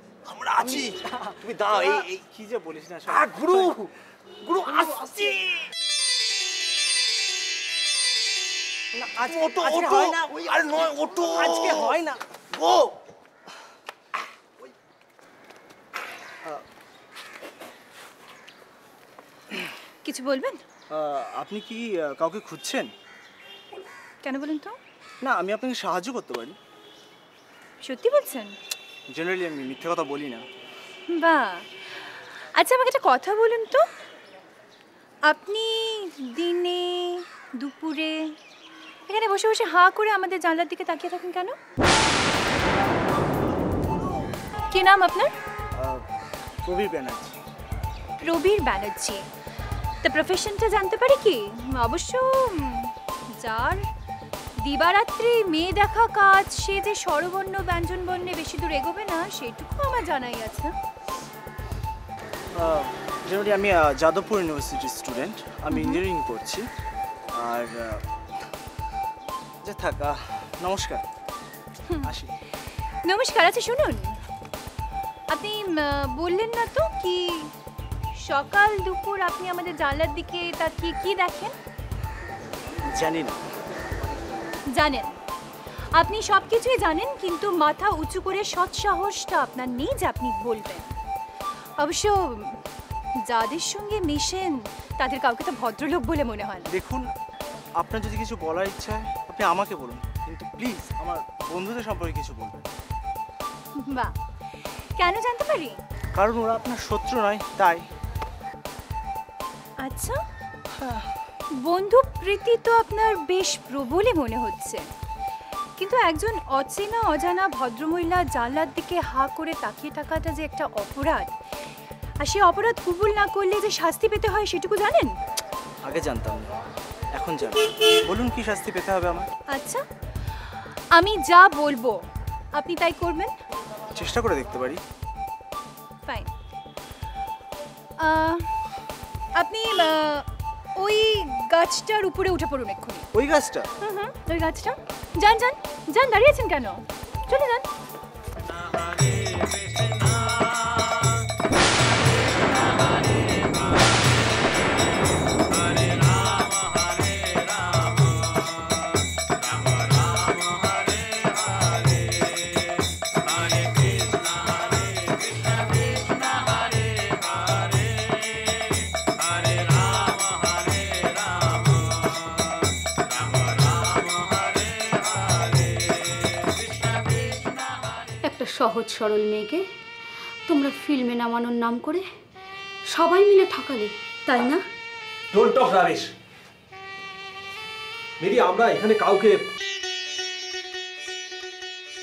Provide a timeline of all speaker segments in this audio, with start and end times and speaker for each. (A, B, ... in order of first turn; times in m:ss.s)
0:00.2-0:02.2 A
0:00.6-0:03.9 B
0:03.2-0:03.9 A
0:04.4-0:05.7 A
0:04.8-0:05.2 B
0:09.0-0:12.7 B
0:09.5-0:11.2 A
0:20.0-0:20.6 C
0:20.9-0:22.9 B
0:24.2-0:24.8 C
0:25.2-0:26.6 B
0:27.8-0:28.6 C
0:29.1-0:30.4 B
0:31.1-0:33.9 C
0:35.3-0:38.4 C
0:39.1-0:41.6 C
0:44.7-0:45.3 C
0:45.8-0:46.0 B
0:46.7-0:47.4 B
0:48.2-0:49.2 C
0:50.0-0:53.8 C
0:54.6-1:00.7 C
1:02.5-1:06.7 B
1:05.7-1:06.0 C
1:07.3-1:08.0 B
1:09.6-1:11.0 B
1:12.0-1:12.3 B
1:13.0-1:14.2 C
1:15.3-1:17.5 C
1:18.2-1:21.5 C
1:22.9-1:23.4 B
1:24.7-1:25.2 C
1:25.9-1:30.9 C
1:31.8-1:32.6 C
1:33.2-1:36.7 C
1:36.7-1:37.1 B
1:37.8-1:42.6 B
1:43.8-1:45.8 C
1:46.2-1:47.8 B
1:49.8-1:50.2 C
1:50.8-1:51.1 B
1:51.6-1:54.8 C
1:55.8-2:01.3 C
2:02.2-2:05.2 C
2:05.8-2:06.5 B
2:07.1-2:09.3 B
2:09.5-2:09.8 C
2:10.9-2:12.0 C
2:12.5-2:13.3 C
2:14.0-2:14.8 B
2:18.0-2:18.5 C
2:19.4-2:20.2 C
2:20.8-2:23.1 C
2:23.1-2:23.7 B
2:23.8-2:27.7 C
2:58.2-2:59.6 D
3:00.5-3:02.1 D
3:02.9-3:04.6 D
3:05.3-3:06.1 E
3:08.2-3:09.4 E